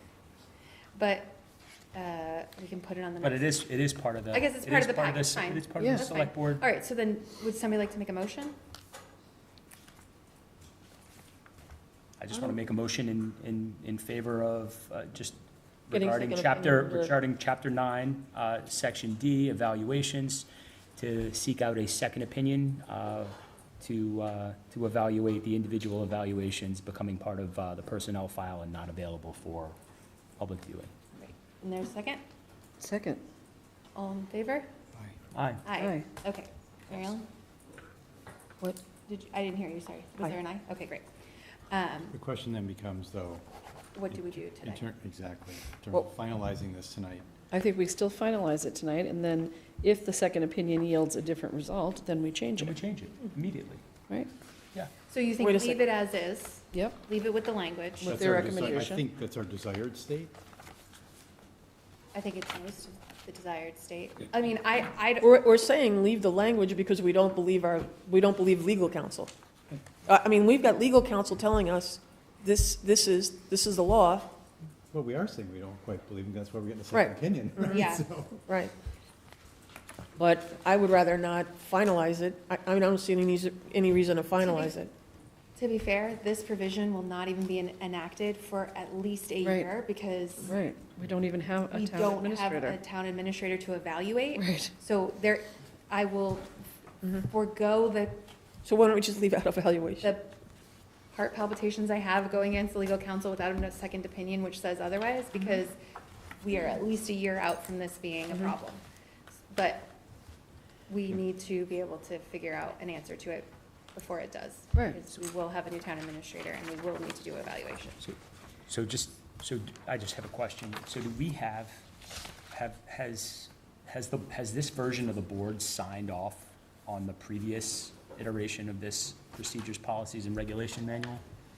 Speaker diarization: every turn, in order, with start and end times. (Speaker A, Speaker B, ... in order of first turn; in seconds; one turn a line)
Speaker A: 0.9-1.4
Speaker A: 1.9-3.6
Speaker B: 3.2-6.6
Speaker A: 4.3-8.5
Speaker C: 5.8-6.1
Speaker B: 12.2-15.4
Speaker B: 15.9-29.8
Speaker D: 15.9-17.1
Speaker B: 30.4-30.9
Speaker A: 31.2-32.2
Speaker C: 32.8-33.2
Speaker A: 33.9-34.7
Speaker B: 35.3-35.7
Speaker A: 35.6-37.2
Speaker C: 35.8-36.0
Speaker A: 39.1-41.1
Speaker A: 41.7-42.1
Speaker E: 42.1-43.4
Speaker A: 43.9-44.8
Speaker E: 44.1-47.2
Speaker C: 47.5-52.7
Speaker B: 52.6-53.8
Speaker A: 55.1-58.5
Speaker D: 55.4-55.7
Speaker C: 58.0-59.0
Speaker E: 58.0-60.3
Speaker A: 62.1-65.3
Speaker D: 65.2-69.3
Speaker D: 70.0-74.3
Speaker E: 74.9-78.4
Speaker A: 77.6-78.1
Speaker D: 78.4-78.7
Speaker D: 80.2-84.9
Speaker A: 84.4-84.7
Speaker A: 85.5-90.6
Speaker C: 89.4-89.7
Speaker C: 90.4-92.8
Speaker A: 91.7-96.5
Speaker C: 94.3-94.7
Speaker A: 97.2-98.2
Speaker D: 98.6-100.1
Speaker A: 100.0-100.3
Speaker A: 101.1-105.8
Speaker A: 106.4-108.8
Speaker A: 109.5-109.9
Speaker A: 110.9-118.0
Speaker B: 118.7-121.8
Speaker B: 122.5-131.2